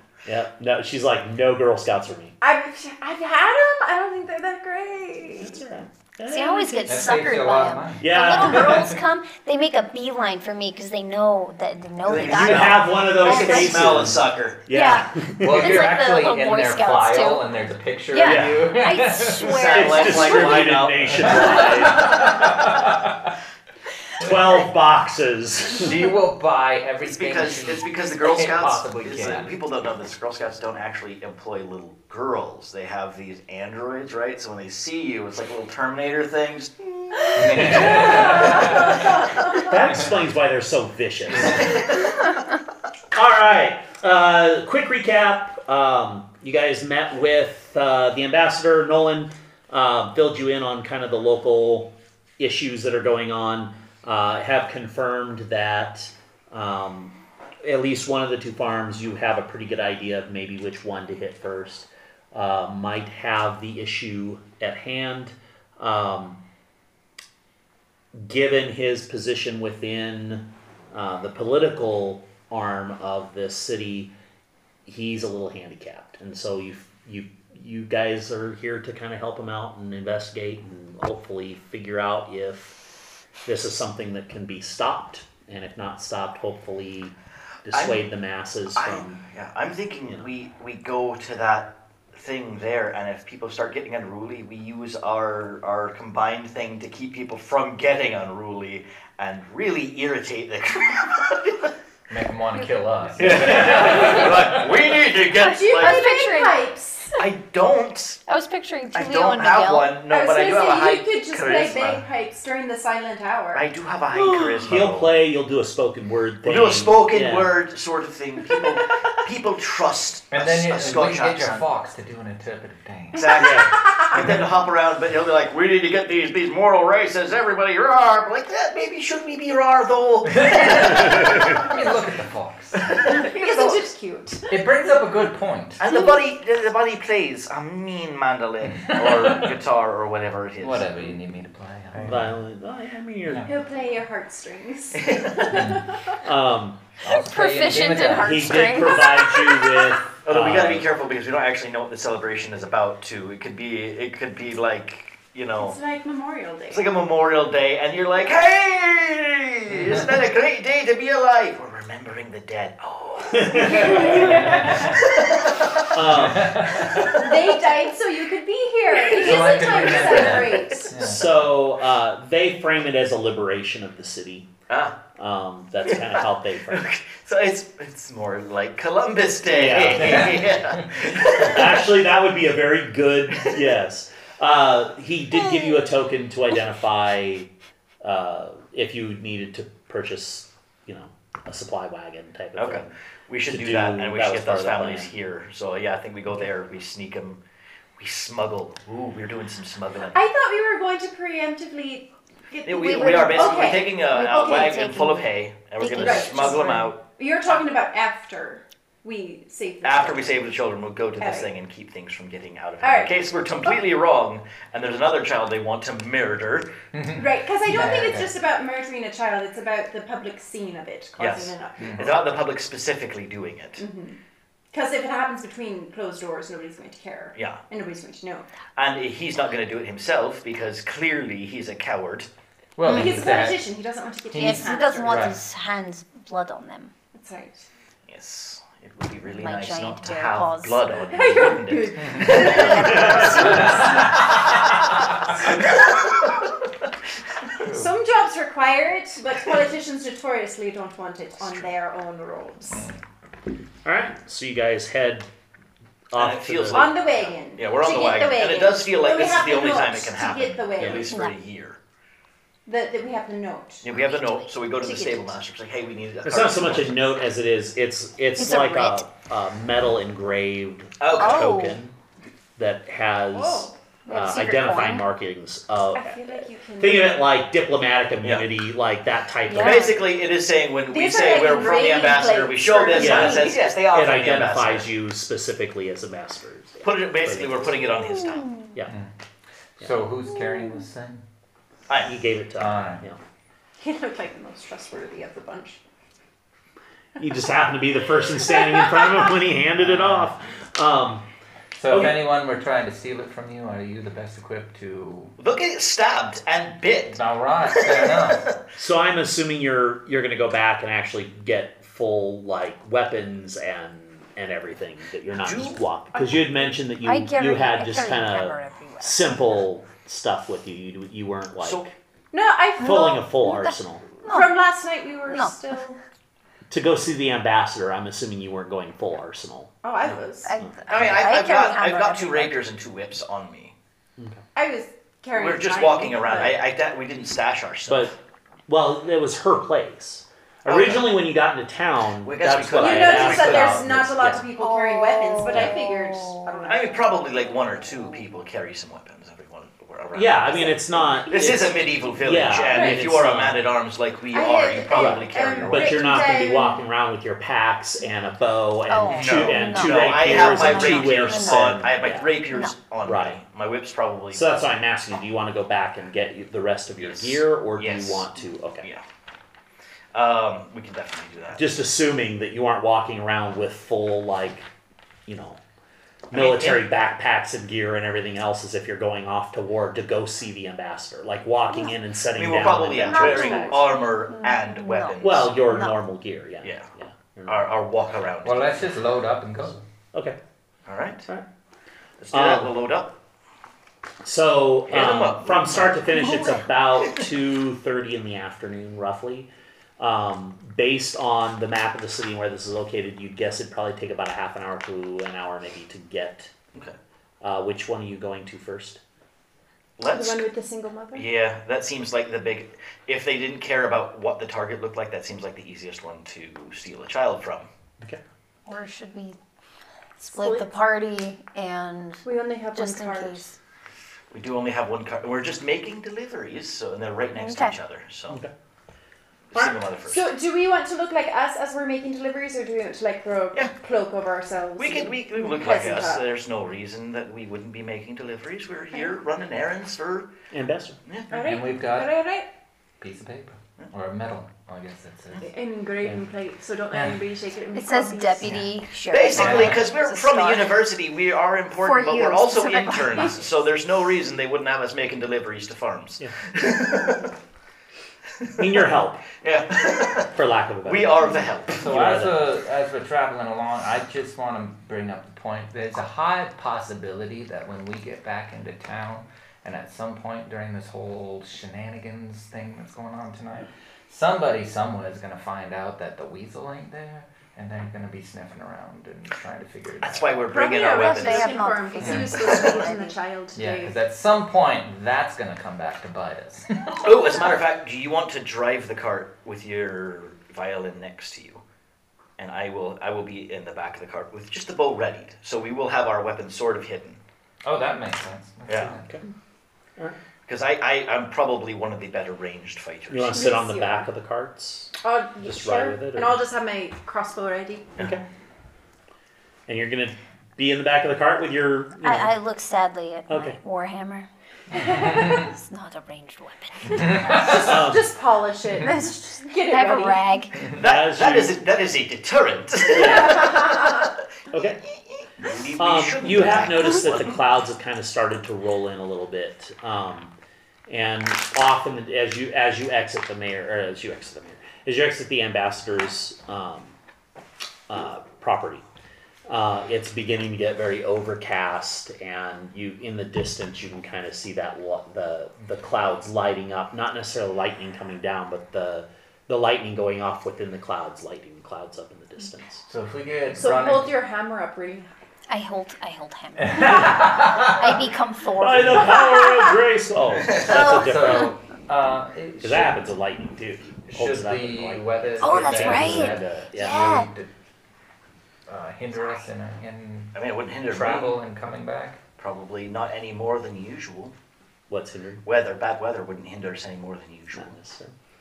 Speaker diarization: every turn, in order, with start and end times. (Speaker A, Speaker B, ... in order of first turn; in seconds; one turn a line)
Speaker A: 0.3-2.4
Speaker B: 2.4-5.6
Speaker A: 5.4-7.2
Speaker C: 6.3-14.0
Speaker D: 6.8-9.0
Speaker A: 8.0-8.9
Speaker E: 12.0-14.6
Speaker A: 12.2-15.9
Speaker C: 14.7-17.5
Speaker D: 15.4-19.6
Speaker C: 18.1-20.8
Speaker A: 18.2-22.8
Speaker E: 19.4-21.6
Speaker D: 21.0-23.1
Speaker C: 21.3-21.7
Speaker A: 24.2-26.1
Speaker D: 25.8-29.6
Speaker E: 27.0-38.8
Speaker D: 37.3-39.0
Speaker A: 37.6-38.8
Speaker B: 38.0-39.8
Speaker A: 39.5-41.8
Speaker A: 43.1-66.4
Speaker A: 68.1-74.2
Speaker A: 74.9-82.9
Speaker A: 83.5-89.2
Speaker E: 87.7-88.1
Speaker E: 88.8-101.7
Speaker D: 102.1-104.7
Speaker E: 103.2-106.1
Speaker A: 103.5-104.2
Speaker B: 105.4-107.1
Speaker C: 105.4-107.3
Speaker E: 107.2-108.2
Speaker C: 108.3-110.0
Speaker E: 108.9-112.0
Speaker B: 110.1-113.7
Speaker E: 113.5-115.2
Speaker A: 114.1-117.5
Speaker E: 116.4-121.7
Speaker D: 120.3-123.3
Speaker E: 123.1-131.8
Speaker B: 123.2-124.1
Speaker A: 123.4-123.8
Speaker D: 130.3-133.1
Speaker E: 132.8-133.9
Speaker B: 133.1-135.1
Speaker D: 134.5-135.8
Speaker E: 135.8-140.9
Speaker B: 135.9-136.2
Speaker D: 138.7-139.5
Speaker D: 140.6-142.4
Speaker A: 142.0-143.5
Speaker D: 143.3-143.5
Speaker B: 143.4-146.0
Speaker E: 144.9-145.7
Speaker D: 145.5-145.9
Speaker A: 146.2-146.8
Speaker D: 147.0-148.8
Speaker C: 147.2-149.9
Speaker A: 148.2-150.9
Speaker E: 150.2-155.8
Speaker B: 155.6-156.9
Speaker E: 156.7-167.3
Speaker A: 163.3-164.5
Speaker B: 163.7-164.6
Speaker D: 164.2-165.0
Speaker A: 165.9-166.9
Speaker D: 166.1-167.1
Speaker B: 167.0-170.9
Speaker D: 169.0-171.3
Speaker E: 169.2-170.9
Speaker A: 171.0-174.5
Speaker E: 174.7-175.0
Speaker A: 175.2-176.9
Speaker E: 175.8-181.9
Speaker A: 179.5-180.6
Speaker D: 180.0-181.1
Speaker A: 181.2-187.5
Speaker A: 188.0-192.9
Speaker E: 192.6-197.4
Speaker A: 193.5-195.1
Speaker E: 198.0-200.2
Speaker B: 200.1-203.9
Speaker E: 202.6-207.0
Speaker C: 202.7-206.9
Speaker B: 205.9-210.6
Speaker E: 209.8-216.8
Speaker B: 211.2-211.5
Speaker B: 212.8-213.3
Speaker D: 216.9-218.3
Speaker B: 217.2-222.2
Speaker E: 221.2-223.8
Speaker D: 221.8-222.2
Speaker B: 223.8-224.2
Speaker B: 224.7-228.5
Speaker E: 227.4-227.6
Speaker E: 228.8-232.3
Speaker D: 232.8-233.7
Speaker C: 232.8-233.4
Speaker B: 232.9-235.4
Speaker D: 234.3-235.4
Speaker C: 234.3-236.9
Speaker B: 237.1-237.7
Speaker E: 238.1-244.2
Speaker C: 239.3-240.9
Speaker B: 241.1-244.3
Speaker D: 242.0-242.4
Speaker C: 242.5-243.2
Speaker D: 243.4-244.3
Speaker E: 245.4-246.6
Speaker D: 247.6-247.9
Speaker B: 247.6-252.9
Speaker A: 253.8-255.3
Speaker A: 256.1-256.9
Speaker E: 256.1-261.8
Speaker B: 256.7-261.1
Speaker C: 261.1-261.4
Speaker B: 262.7-263.9
Speaker E: 263.8-267.0
Speaker C: 263.9-264.5
Speaker B: 264.8-265.4
Speaker A: 266.2-271.9
Speaker C: 268.4-269.0
Speaker E: 271.0-271.5
Speaker C: 271.2-271.8
Speaker A: 272.6-276.2
Speaker B: 273.3-273.7
Speaker C: 274.1-275.1
Speaker B: 275.9-277.3
Speaker A: 276.8-279.9
Speaker E: 278.2-278.5
Speaker C: 279.4-279.9
Speaker E: 279.6-284.9
Speaker B: 280.9-283.6
Speaker A: 282.9-287.8
Speaker E: 286.8-288.6
Speaker D: 289.8-291.2
Speaker A: 292.0-293.2
Speaker D: 292.6-293.1
Speaker B: 293.8-295.8
Speaker A: 297.2-301.2
Speaker B: 298.4-299.3
Speaker D: 299.8-300.3
Speaker D: 301.8-305.4
Speaker A: 301.9-302.2
Speaker E: 305.4-308.6
Speaker D: 307.1-308.4
Speaker A: 308.8-321.9
Speaker E: 315.4-315.8
Speaker B: 316.1-316.7
Speaker C: 317.0-319.5
Speaker E: 321.6-321.9
Speaker B: 322.3-323.2
Speaker A: 322.8-324.1
Speaker C: 322.8-324.6
Speaker B: 324.3-326.0
Speaker C: 325.3-325.5
Speaker A: 326.7-331.2
Speaker B: 329.8-330.6
Speaker C: 330.4-332.6
Speaker E: 330.9-333.8
Speaker B: 334.6-336.6
Speaker E: 335.4-338.1
Speaker A: 337.9-338.2
Speaker A: 338.7-344.4
Speaker E: 340.7-341.2
Speaker E: 342.2-343.9
Speaker B: 342.8-347.0
Speaker C: 344.6-346.7
Speaker A: 345.5-345.8
Speaker E: 346.7-350.6
Speaker A: 350.1-353.7
Speaker B: 350.6-351.7
Speaker E: 351.3-356.1
Speaker B: 352.7-353.0
Speaker B: 354.3-356.8
Speaker A: 354.9-362.3
Speaker C: 358.9-361.9
Speaker E: 359.1-364.6
Speaker A: 363.1-363.4
Speaker A: 364.3-368.9
Speaker E: 367.0-368.3
Speaker E: 370.1-371.8
Speaker A: 371.6-374.7
Speaker A: 375.3-375.6
Speaker E: 376.3-376.9
Speaker A: 376.3-383.9
Speaker E: 382.3-385.5
Speaker C: 383.0-386.0
Speaker A: 385.2-387.7
Speaker E: 387.5-388.9
Speaker D: 388.4-389.8
Speaker A: 389.7-390.4
Speaker E: 390.9-391.3
Speaker E: 392.2-393.2
Speaker A: 392.3-392.7
Speaker A: 394.2-406.5
Speaker E: 394.9-396.4
Speaker A: 407.4-409.0
Speaker E: 410.0-410.5
Speaker B: 410.1-411.3
Speaker E: 411.1-417.7
Speaker C: 418.7-419.4
Speaker C: 420.2-423.6
Speaker B: 420.3-420.7
Speaker B: 422.2-423.4
Speaker E: 424.3-428.4
Speaker C: 427.4-427.8
Speaker E: 429.5-430.3
Speaker B: 430.1-436.3
Speaker E: 434.8-440.3
Speaker A: 440.5-441.0
Speaker D: 441.3-442.1
Speaker B: 441.3-442.5
Speaker D: 443.0-445.5
Speaker B: 445.4-448.6
Speaker D: 446.9-447.2
Speaker C: 447.7-450.8
Speaker E: 449.1-457.3
Speaker D: 449.3-449.9
Speaker C: 451.8-453.5
Speaker E: 458.4-458.7
Speaker A: 458.6-459.2
Speaker E: 459.4-460.3
Speaker A: 460.3-462.5
Speaker E: 460.9-461.9
Speaker D: 461.8-480.4
Speaker E: 480.0-481.7
Speaker B: 480.5-484.0
Speaker C: 480.8-483.2
Speaker D: 482.0-482.3
Speaker E: 482.3-482.9
Speaker D: 483.6-487.1
Speaker E: 487.0-491.6
Speaker E: 492.4-497.2
Speaker D: 497.6-499.1
Speaker E: 498.7-498.9
Speaker A: 499.0-499.3
Speaker E: 500.5-503.5
Speaker A: 503.1-506.4
Speaker B: 503.3-504.1
Speaker B: 505.0-507.9
Speaker A: 508.0-508.2
Speaker A: 509.7-512.3
Speaker C: 512.0-517.5
Speaker A: 513.3-513.6
Speaker B: 514.7-515.5
Speaker D: 517.0-517.5
Speaker B: 517.0-520.4
Speaker A: 517.5-518.1
Speaker C: 519.5-520.7
Speaker E: 520.7-524.1
Speaker A: 520.7-521.6
Speaker A: 522.9-523.7
Speaker B: 523.0-523.7
Speaker A: 524.5-524.8
Speaker E: 524.9-527.4
Speaker A: 525.8-530.3
Speaker A: 530.9-537.0
Speaker A: 537.9-538.8
Speaker A: 539.5-552.8
Speaker D: 552.9-554.1
Speaker B: 553.5-555.1
Speaker C: 555.5-559.7
Speaker D: 556.6-557.8
Speaker A: 558.6-561.6
Speaker D: 560.4-563.1
Speaker C: 560.7-561.3
Speaker A: 562.6-567.1
Speaker D: 564.1-567.5
Speaker C: 565.4-567.3
Speaker D: 568.7-572.2
Speaker E: 570.4-571.4
Speaker E: 572.4-574.3
Speaker A: 574.9-575.5
Speaker E: 575.5-577.8
Speaker A: 577.5-578.1